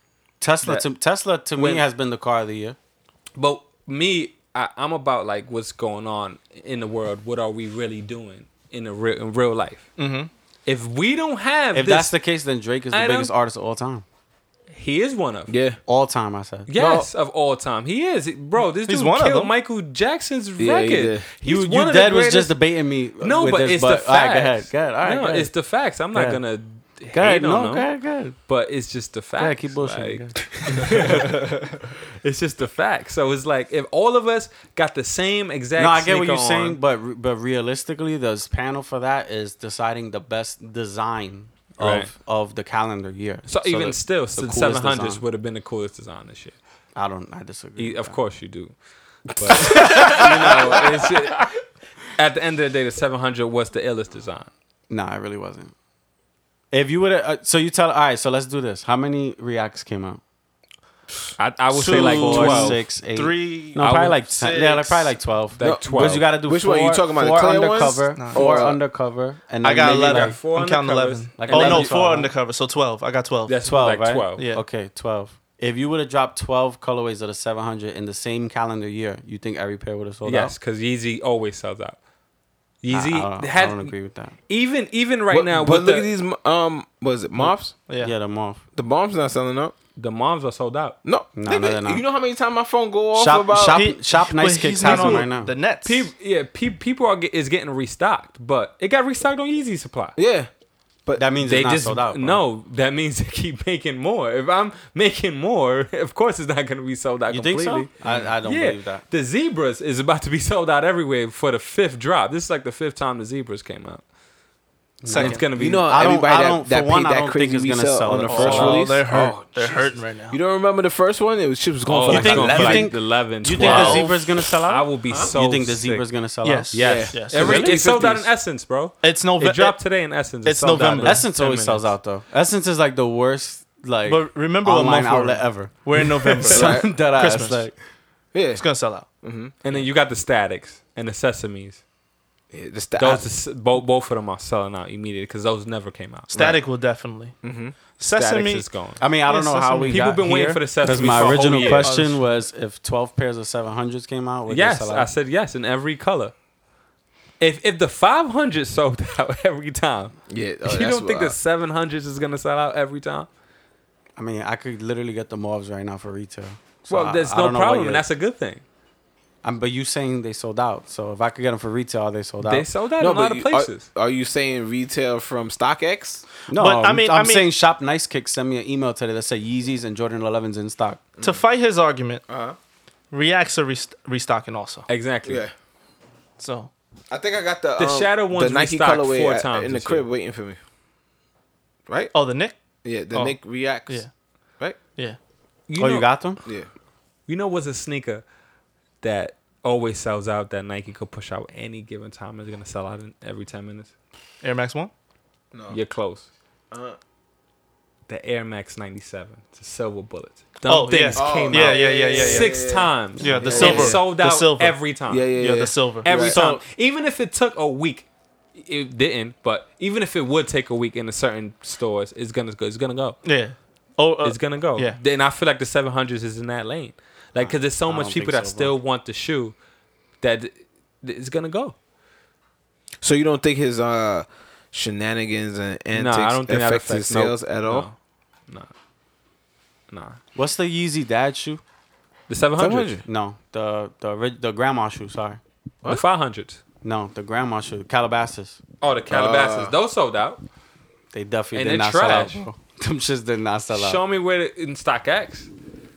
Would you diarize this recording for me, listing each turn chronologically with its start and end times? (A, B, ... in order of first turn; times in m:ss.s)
0:00.4-0:02.8 A
0:01.6-0:01.8 B
0:03.4-0:09.9 B
0:10.0-0:10.3 C
0:10.6-0:12.1 B
0:11.7-0:14.0 A
0:12.9-0:13.3 B
0:14.7-0:15.5 B
0:15.5-0:15.8 D
0:15.8-0:16.7 A
0:16.7-0:22.5 B
0:16.8-0:17.0 D
0:18.9-0:19.5 C
0:20.6-0:21.3 D
0:21.4-0:25.5 A
0:23.2-0:27.9 B
0:26.1-0:26.4 A
0:27.1-0:28.4 A
0:28.5-0:36.8 B
0:29.4-0:31.3 A
0:35.7-0:45.2 A
0:41.8-0:42.1 B
0:43.5-0:46.6 B
0:47.0-0:48.2 A
0:47.8-0:48.7 B
0:49.3-0:51.6 B
0:49.6-0:51.1 A
0:52.1-0:54.5 B
0:54.9-0:55.7 A
0:56.7-1:00.2 A
1:01.4-1:02.8 B
1:01.7-1:10.4 A
1:01.8-1:03.8 C
1:03.8-1:06.3 B
1:05.6-1:08.8 D
1:08.2-1:08.5 C
1:09.6-1:13.5 C
1:09.8-1:12.0 B
1:11.4-1:12.3 A
1:13.5-1:14.4 B
1:13.6-1:20.5 A
1:14.4-1:14.6 C
1:20.2-1:22.0 B
1:22.8-1:23.9 B
1:22.9-1:24.3 A
1:24.5-1:26.1 B
1:25.3-1:27.8 D
1:27.9-1:28.1 C
1:28.0-1:28.6 A
1:28.8-1:29.7 D
1:30.0-1:31.0 B
1:31.0-1:33.8 D
1:31.3-1:32.0 A
1:33.1-1:35.5 A
1:33.6-1:36.1 C
1:34.8-1:35.3 B
1:35.8-1:40.2 B
1:40.2-1:40.5 D
1:41.2-1:42.4 A
1:41.4-1:47.9 B
1:47.3-1:49.0 A
1:48.4-1:54.0 B
1:55.0-1:58.8 A
1:55.0-1:56.0 B
1:55.1-1:55.4 C
1:55.6-2:02.9 D
1:58.2-2:00.4 C
2:01.9-2:06.1 B
2:02.1-2:07.8 A
2:03.6-2:04.1 C
2:06.4-2:07.4 C
2:06.7-2:11.9 B
2:06.7-2:08.3 D
2:09.0-2:09.8 C
2:10.4-2:11.2 C
2:11.0-2:17.7 A
2:14.0-2:17.6 C
2:16.5-2:16.9 D
2:18.3-2:18.6 D
2:18.6-2:19.1 C
2:19.2-2:19.5 D
2:19.6-2:21.8 B
2:22.5-2:23.2 D
2:23.0-2:26.5 B
2:26.3-2:28.6 C
2:27.4-2:27.8 D
2:28.2-2:29.0 B
2:29.0-2:35.1 A
2:29.3-2:30.1 C
2:29.8-2:32.0 B
2:30.8-2:32.2 C
2:34.5-2:36.3 B
2:37.4-2:43.3 B
2:40.3-2:41.4 D
2:44.2-2:48.0 A
2:46.9-2:48.6 B
2:49.4-2:52.6 A
2:52.4-2:53.9 B
2:53.0-2:56.2 D
2:56.5-3:01.0 A
2:56.5-2:57.5 C
3:01.2-3:02.2 C
3:02.3-3:02.6 D
3:03.1-3:04.9 C
3:04.9-3:05.4 B
3:05.2-3:05.5 D
3:06.4-3:06.7 C
3:07.1-3:10.6 D
3:07.8-3:10.0 B
3:11.9-3:12.1 D
3:12.1-3:12.6 C
3:12.8-3:14.1 D
3:13.1-3:14.1 C
3:15.7-3:16.1 B
3:15.8-3:16.4 A
3:17.3-3:18.2 B
3:19.0-3:23.9 B
3:24.4-3:24.9 C
3:25.5-3:25.8 D
3:25.7-3:26.3 B
3:26.7-3:27.0 D
3:28.1-3:35.3 B
3:30.7-3:32.6 C
3:31.2-3:34.1 D
3:33.2-3:34.8 C
3:35.1-3:36.4 D
3:35.4-3:36.1 C
3:36.0-3:43.2 B
3:36.1-3:36.6 A
3:43.2-3:45.0 C
3:44.2-3:49.5 B
3:47.4-3:48.7 A
3:50.2-3:51.7 B
3:53.0-3:57.9 D
3:55.9-3:57.9 B
3:59.9-4:00.2 B
4:00.3-4:01.6 A
4:02.3-4:02.9 B
4:02.6-4:03.0 D
4:03.0-4:05.4 A
4:05.9-4:06.6 B
4:06.8-4:08.6 A
4:08.8-4:10.4 B
4:09.1-4:09.7 D
4:11.1-4:14.0 A
4:11.5-4:12.4 B
4:13.7-4:15.5 B